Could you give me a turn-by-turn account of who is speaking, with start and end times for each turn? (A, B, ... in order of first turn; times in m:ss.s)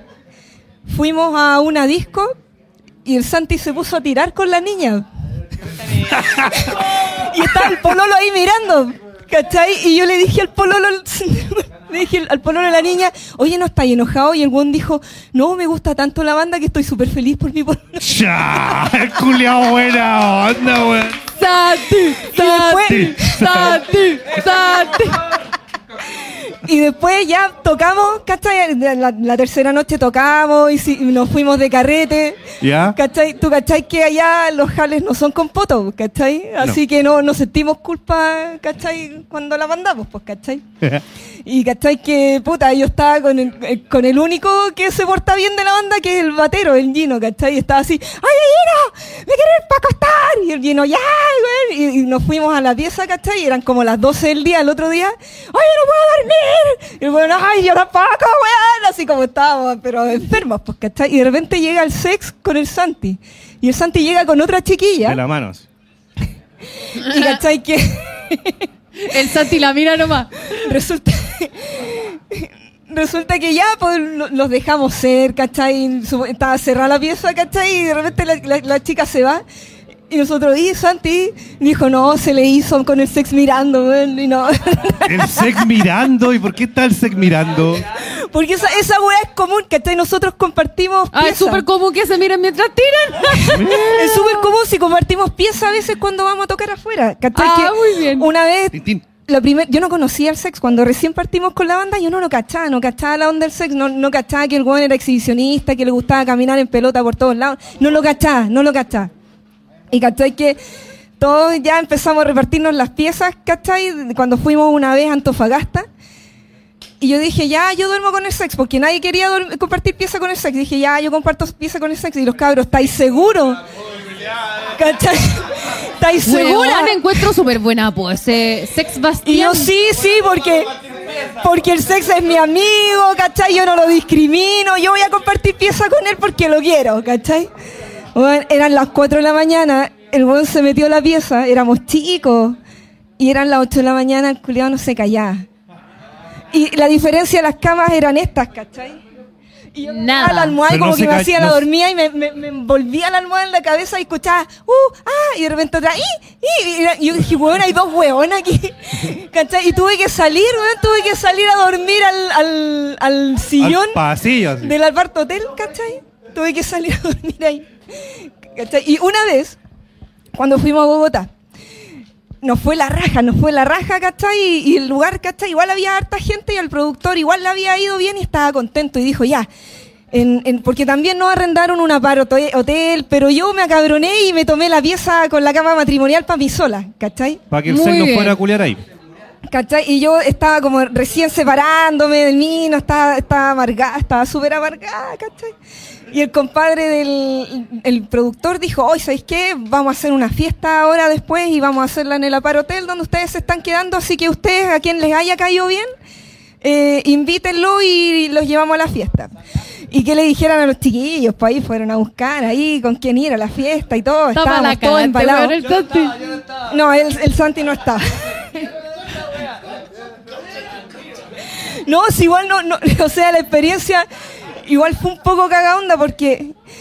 0:00.9-0:02.3 A
0:03.0-0:05.0 A
0:06.1-0:06.6 B
0:06.3-0:18.0 A
0:18.0-0:21.2 B
0:21.4-0:25.2 C
0:22.3-0:23.6 A
0:22.8-0:23.8 B
0:26.6-0:40.6 A
0:32.6-0:33.0 B
0:41.4-1:05.2 A
1:05.0-1:05.6 B
1:07.0-1:08.7 A
1:07.0-1:07.4 C
1:09.0-1:10.6 C
1:10.6-1:19.4 A
1:20.1-1:25.6 A
1:25.0-1:27.8 B
1:28.3-1:31.6 A
1:31.1-1:34.5 C
1:33.3-1:49.1 A
1:33.5-1:33.9 B
1:37.3-1:38.3 C
1:38.7-1:39.0 B
1:49.9-1:50.6 A
1:51.2-1:55.9 A
1:57.0-2:03.6 A
2:04.8-2:07.0 A
2:06.2-2:09.7 C
2:09.2-2:10.7 A
2:11.4-2:17.5 A
2:18.1-2:22.6 A
2:23.2-2:25.4 A
2:26.5-2:29.0 A
2:29.7-2:44.0 A
2:29.8-2:30.6 C
2:30.6-2:31.6 B
2:43.6-2:44.7 B
2:44.6-2:47.7 A
2:48.5-2:49.6 A
2:50.3-2:51.3 A
2:52.4-2:59.5 A
3:00.1-3:07.4 A
3:07.5-3:08.8 B
3:07.6-3:08.4 C
3:09.5-3:15.5 A
3:16.1-3:25.9 A
3:26.6-3:29.3 A
3:29.9-3:35.6 A
3:34.3-3:36.2 C
3:36.7-3:38.6 A
3:41.8-3:44.0 A
3:44.6-3:46.5 A